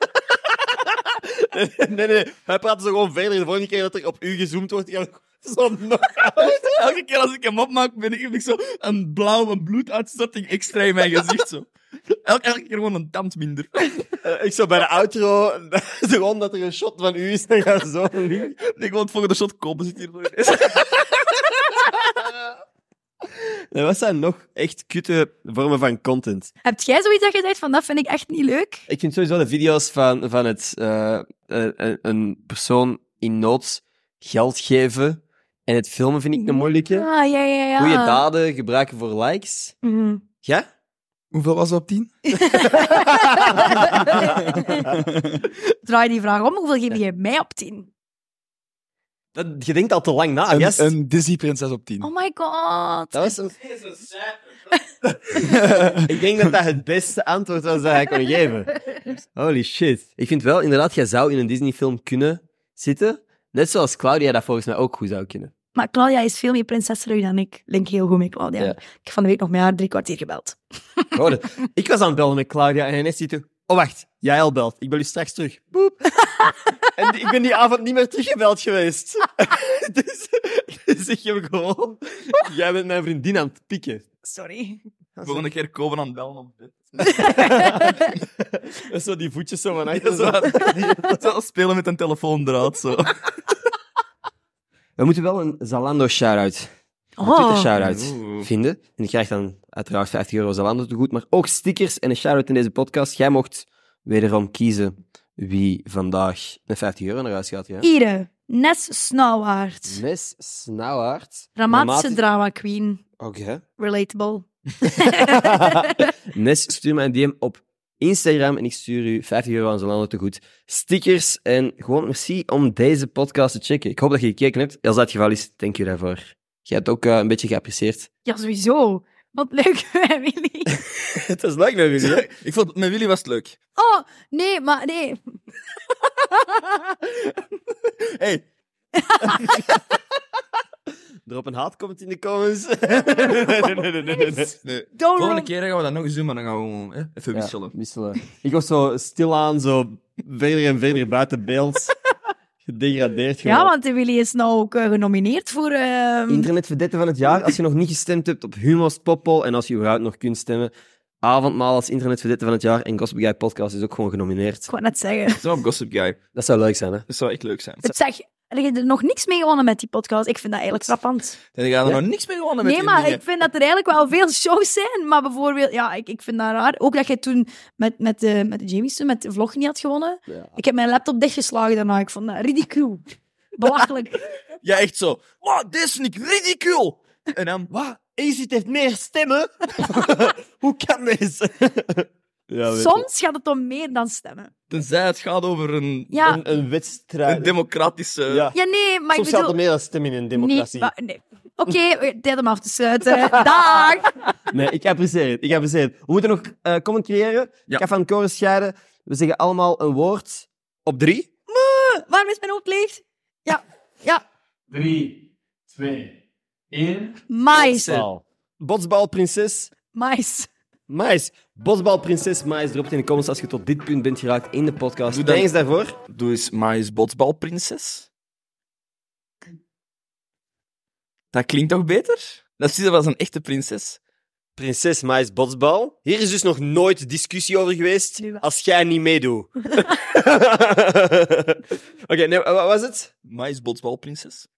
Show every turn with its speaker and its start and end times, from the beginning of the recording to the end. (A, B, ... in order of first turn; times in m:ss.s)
0:00.4-0:06.7 A
0:06.4-0:13.9 B
0:14.1-0:18.6 A
0:18.6-0:21.8 B
0:23.3-0:26.5 A
0:26.6-0:28.8 C
0:28.9-0:37.1 A
0:36.5-0:38.2 C
0:37.8-0:39.7 A
0:39.8-0:40.2 C
0:41.3-0:42.1 B
0:42.3-0:44.9 C
0:42.7-0:44.9 A
0:44.0-0:45.4 B
0:45.8-0:47.9 C
0:49.3-0:50.9 A
0:50.5-0:52.1 B
0:52.0-0:53.3 C
0:53.1-0:53.6 A
0:53.9-0:54.3 B
0:55.4-0:56.1 B
0:55.9-1:05.5 A
1:05.7-1:11.1 C
1:11.1-1:16.2 A
1:16.2-1:16.7 C
1:16.9-1:24.0 A
1:24.2-1:24.8 C
1:25.2-1:25.4 A
1:25.2-1:27.8 B
1:27.1-1:28.1 C
1:27.3-1:31.2 A
1:29.9-1:33.2 B
1:35.0-1:36.7 A
1:37.2-1:37.7 C
1:37.2-1:47.9 A
1:37.7-1:38.5 B
1:47.8-1:50.0 C
1:49.9-1:52.2 A
1:51.6-1:53.0 C
1:53.2-1:53.6 A
1:53.8-1:56.1 C
1:55.0-2:08.1 A
2:08.2-2:10.8 C
2:11.1-2:12.2 A
2:12.0-2:13.6 B
2:13.8-2:15.4 C
2:16.2-2:16.7 C
2:17.9-2:18.4 B
2:19.0-2:19.6 C
2:21.2-2:24.5 A
2:24.0-2:25.5 C
2:24.6-2:27.7 B
2:27.3-2:31.9 A
2:32.6-2:33.7 A
2:33.4-2:36.5 C
2:36.3-2:40.7 A
2:41.2-2:44.7 A
2:44.7-2:45.4 C
2:45.3-2:46.2 B
2:46.3-2:47.0 A
2:47.1-2:47.9 B
2:47.8-2:51.4 C
2:51.5-2:53.2 B
2:52.6-3:03.0 C
3:00.3-3:00.6 A
3:03.6-3:04.3 C
3:04.6-3:07.7 B
3:07.7-3:13.1 A
3:12.7-3:14.5 C
3:14.7-3:16.3 B
3:16.1-3:16.4 C
3:16.2-3:17.5 A
3:17.2-3:18.5 B
3:18.3-3:18.6 A
3:18.5-3:19.6 C
3:19.1-3:20.9 A
3:20.3-3:24.1 C
3:23.1-3:23.8 A
3:24.5-3:31.3 A
3:31.5-3:34.2 C
3:34.7-3:35.1 A
3:35.7-3:36.1 A
3:36.7-3:39.7 A
3:37.3-3:38.0 C
3:39.9-3:40.5 C
3:40.9-3:45.9 A
3:45.1-3:45.5 B
3:46.1-3:48.1 B
3:51.3-3:54.0 B
3:54.6-4:03.1 A
4:03.2-4:04.5 B